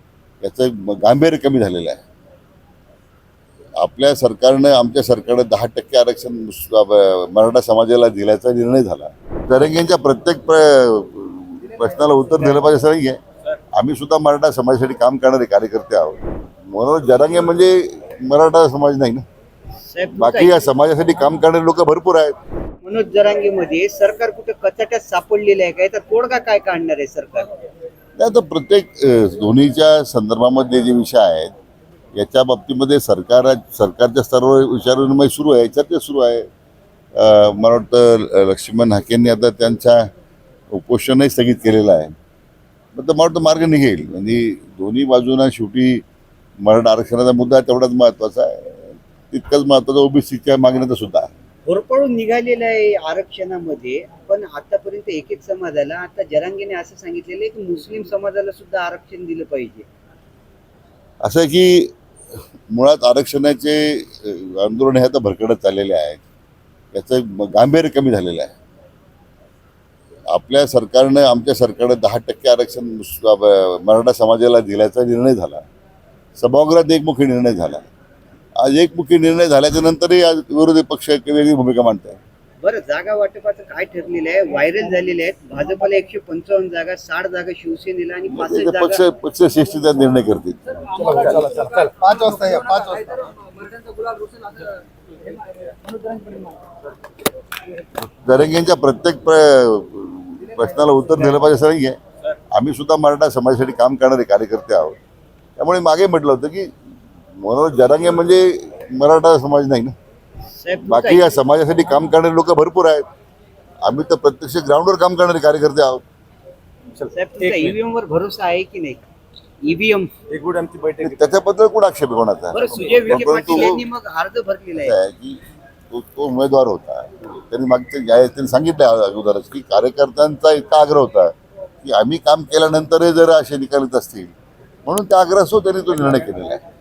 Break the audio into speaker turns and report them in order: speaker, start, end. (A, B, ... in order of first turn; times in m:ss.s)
0:00.4-0:02.0 A
0:03.8-0:13.2 A
0:13.7-0:19.2 A
0:19.8-0:20.6 B
0:20.2-0:22.3 A
0:22.8-0:27.5 B
0:28.2-0:31.5 A
0:32.1-0:36.5 A
0:37.2-0:40.1 A
0:40.7-0:42.1 A
0:43.0-0:46.0 A
0:46.6-0:51.3 A
0:51.7-0:59.9 B
1:01.2-1:01.9 A
1:02.7-1:06.2 A
1:06.9-1:08.5 A
1:10.3-1:15.6 A
1:16.4-1:17.9 A
1:18.6-1:22.2 A
1:22.6-1:29.0 B
1:28.3-1:31.6 A
1:31.1-1:33.2 C
1:38.1-1:42.0 A
1:42.5-1:45.0 A
1:45.6-1:46.7 A
1:47.4-1:50.0 A
1:50.6-1:51.4 B
1:50.9-1:53.0 A
1:53.8-1:56.0 A
1:57.0-1:57.7 C
1:57.1-1:59.0 B
1:59.6-2:00.2 B
2:00.3-2:01.3 C
2:01.0-2:03.8 A
2:02.5-2:05.0 B
2:04.8-2:05.4 A
2:05.9-2:14.3 A
2:14.9-2:16.6 A